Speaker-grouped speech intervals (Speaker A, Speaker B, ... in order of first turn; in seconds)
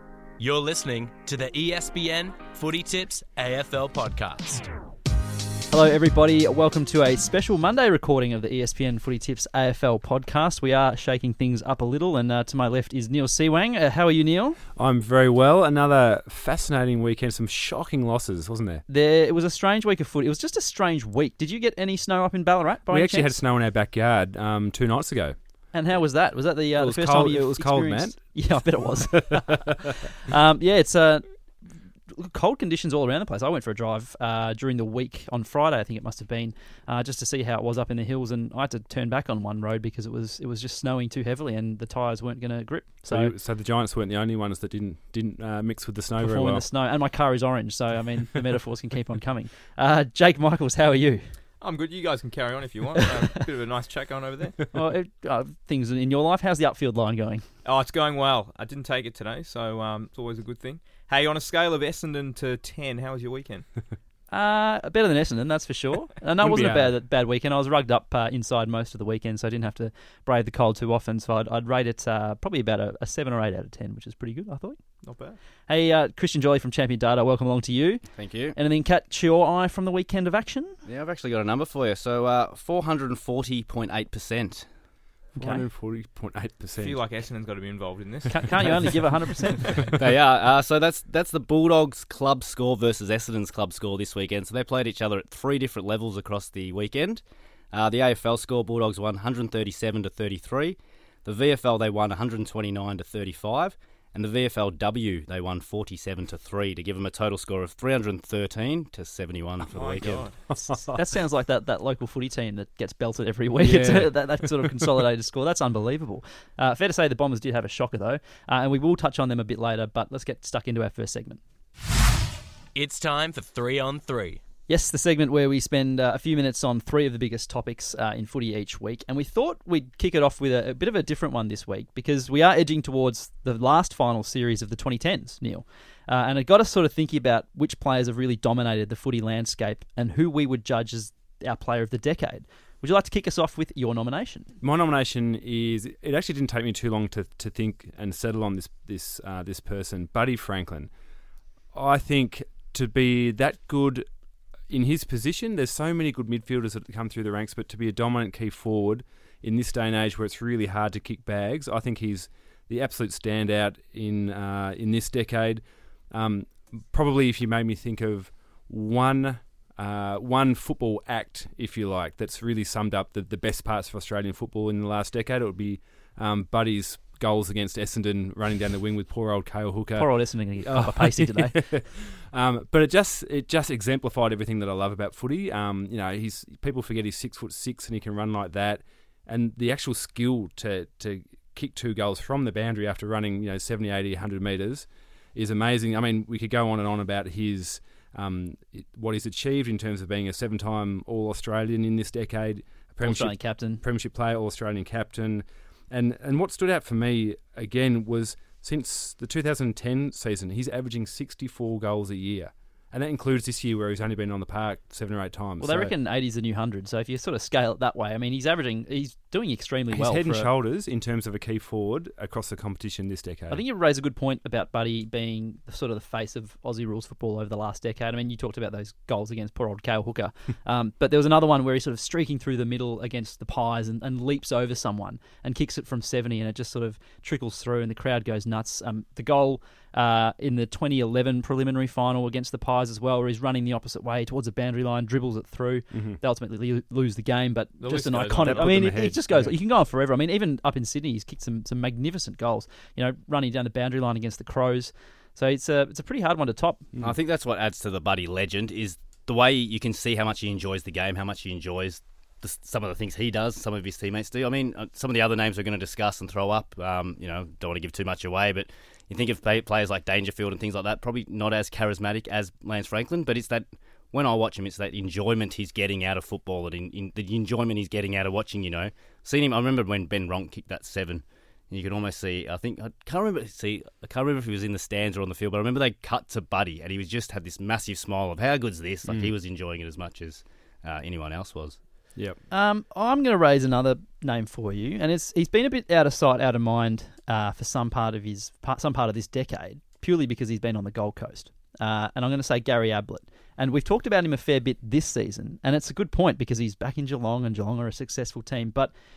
Speaker A: 0.4-4.7, 122.7-124.4
Speaker B: 5.7-14.6, 18.9-23.4, 25.7-31.3, 32.1-43.3, 46.2-51.4, 54.7-57.4, 64.3-74.8, 75.7-80.8, 85.3-85.6, 88.3-89.7, 110.9-121.4, 124.7-144.5, 180.0-181.7, 203.0-203.8, 215.6-220.5, 223.5-256.9, 292.5-308.9
Speaker C: 14.8-18.8, 22.9-25.4, 26.8-29.7, 43.1-46.6, 66.4-66.9, 85.3-87.0, 110.0-111.0, 113.6-114.9, 144.6-150.9, 151.7-154.1, 154.7-215.9, 219.9-223.6, 245.9-246.2, 248.4-249.5, 289.1-289.3
Speaker D: 51.6-54.6, 57.6-63.7, 75.0-75.4, 86.8-89.1, 109.7-110.4, 247.8-248.7
Speaker E: 78.1-78.6, 80.8-84.7, 89.9-110.3, 257.0-291.8